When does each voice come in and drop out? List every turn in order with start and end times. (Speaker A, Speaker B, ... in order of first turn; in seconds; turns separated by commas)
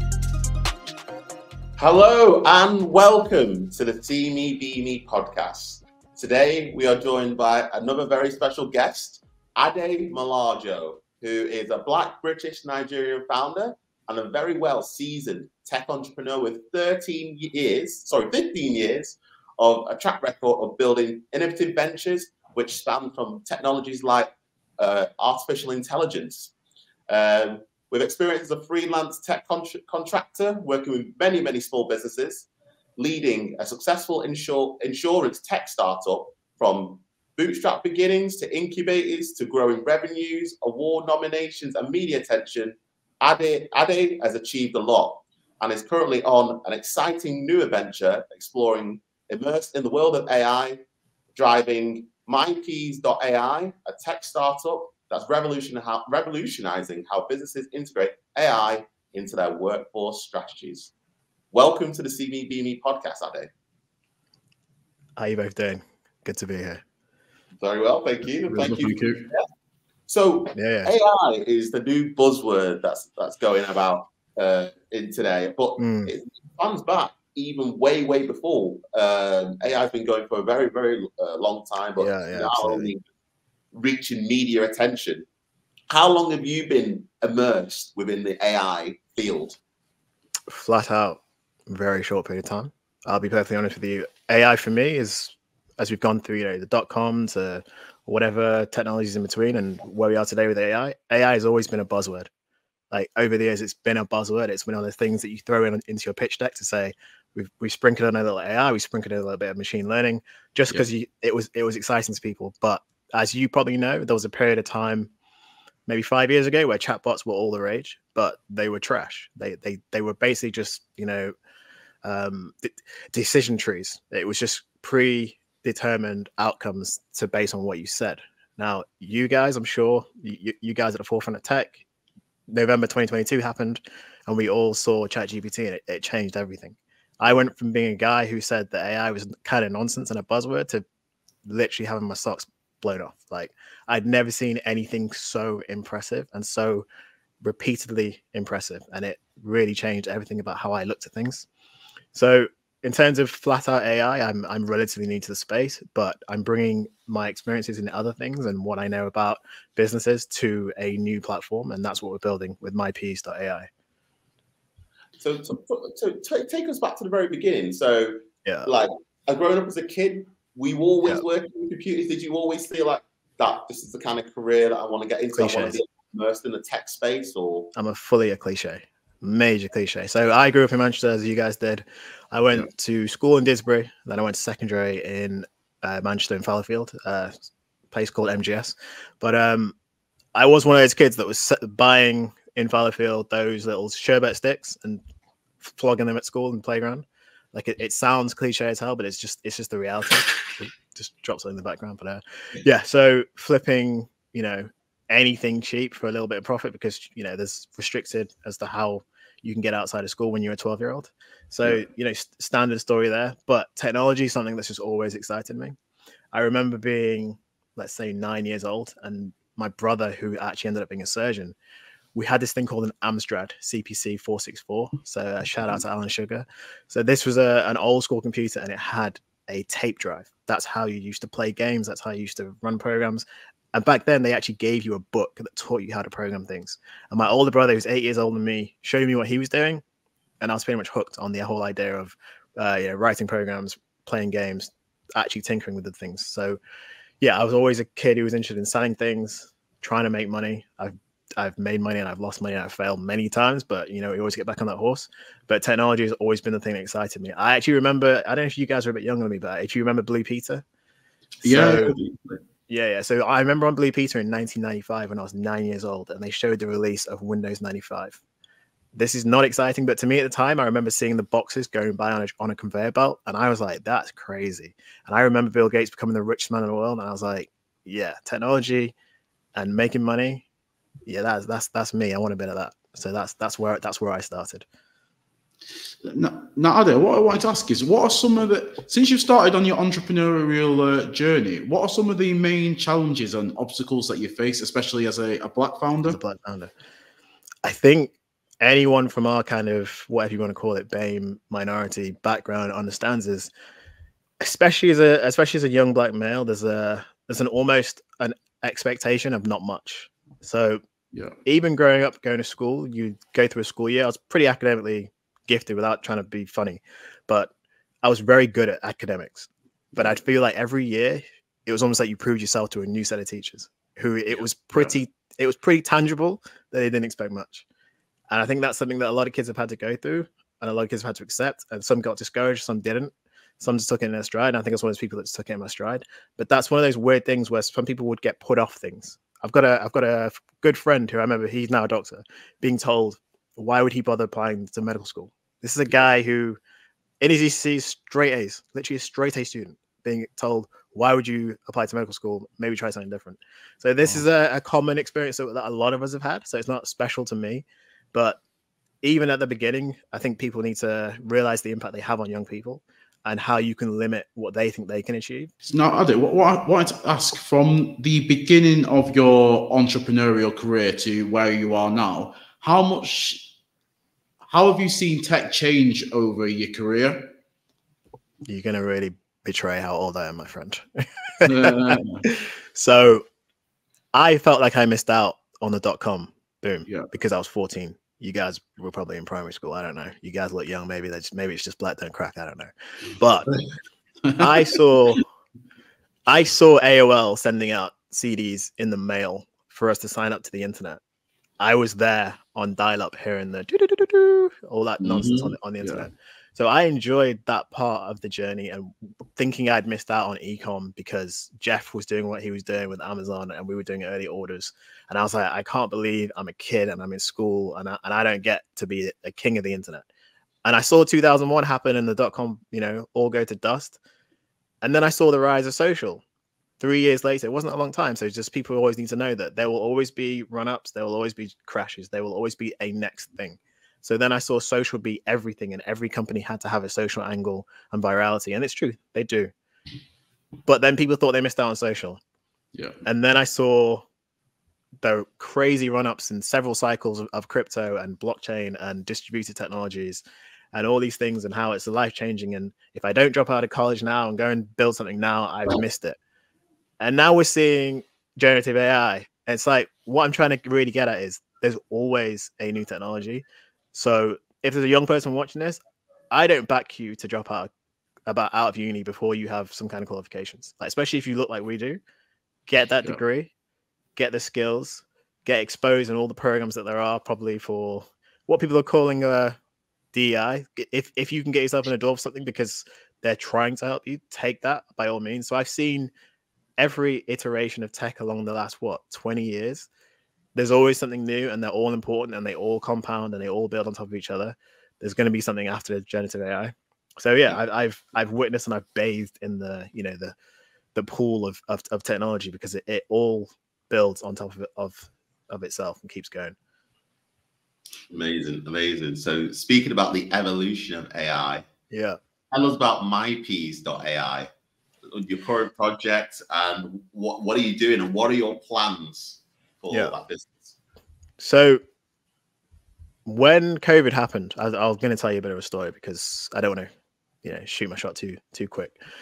Speaker A: 1.8-26.5, Speaker A: 27.1-50.8, Speaker A: 51.3-60.9, Speaker A: 61.5-63.5, Speaker B: 65.2-66.8, Speaker A: 67.6-69.4, Speaker C: 68.5-69.3, Speaker A: 70.1-83.0, Speaker B: 70.5-70.9, Speaker B: 75.8-76.1, Speaker B: 82.0-82.9, Speaker A: 83.7-85.2, Speaker A: 85.9-89.6, Speaker B: 90.5-102.3, Speaker B: 102.9-115.1, Speaker B: 115.9-121.3, Speaker B: 122.0-131.8, Speaker B: 132.5-140.8, Speaker B: 141.4-146.8, Speaker B: 147.4-151.5, Speaker B: 152.1-163.7, Speaker A: 165.2-177.7, Speaker B: 168.4-168.7, Speaker B: 175.3-175.8, Speaker B: 177.8-189.8, Speaker B: 190.3-195.0, Speaker B: 195.6-215.8, Speaker B: 216.3-221.5, Speaker B: 222.1-239.8, Speaker B: 240.4-246.6, Speaker B: 247.2-260.6, Speaker B: 261.4-262.0, Speaker C: 261.4-262.4, Speaker B: 262.7-268.2, Speaker B: 268.9-278.9, Speaker B: 279.6-280.4, Speaker B: 281.1-284.6, Speaker C: 286.0-296.2, Speaker B: 296.1-296.7, Speaker B: 297.6-303.5, Speaker B: 304.4-310.8, Speaker B: 311.4-317.5, Speaker B: 318.0-327.6, Speaker B: 328.3-346.6, Speaker B: 347.2-358.4, Speaker B: 359.0-365.5, Speaker C: 365.6-373.5, Speaker C: 374.4-377.3, Speaker B: 378.4-383.2, Speaker C: 381.4-382.2, Speaker B: 384.1-393.5, Speaker B: 394.4-395.3, Speaker B: 396.3-401.0, Speaker B: 401.6-420.1, Speaker C: 405.3-406.1, Speaker B: 420.6-424.0, Speaker B: 424.8-426.2, Speaker B: 426.8-439.5, Speaker B: 440.6-442.2, Speaker C: 442.7-443.0, Speaker B: 443.0-444.1, Speaker B: 445.0-456.2, Speaker B: 457.0-465.8, Speaker B: 466.3-467.7, Speaker B: 468.3-472.0, Speaker B: 472.7-473.5, Speaker B: 474.1-479.6, Speaker B: 480.1-486.1, Speaker B: 486.8-489.9, Speaker B: 490.6-500.3, Speaker B: 500.9-506.6, Speaker A: 508.1-511.7, Speaker B: 511.9-512.2, Speaker A: 512.5-514.5, Speaker A: 515.1-520.8, Speaker B: 521.4-521.8, Speaker B: 523.2-526.9, Speaker B: 527.4-529.0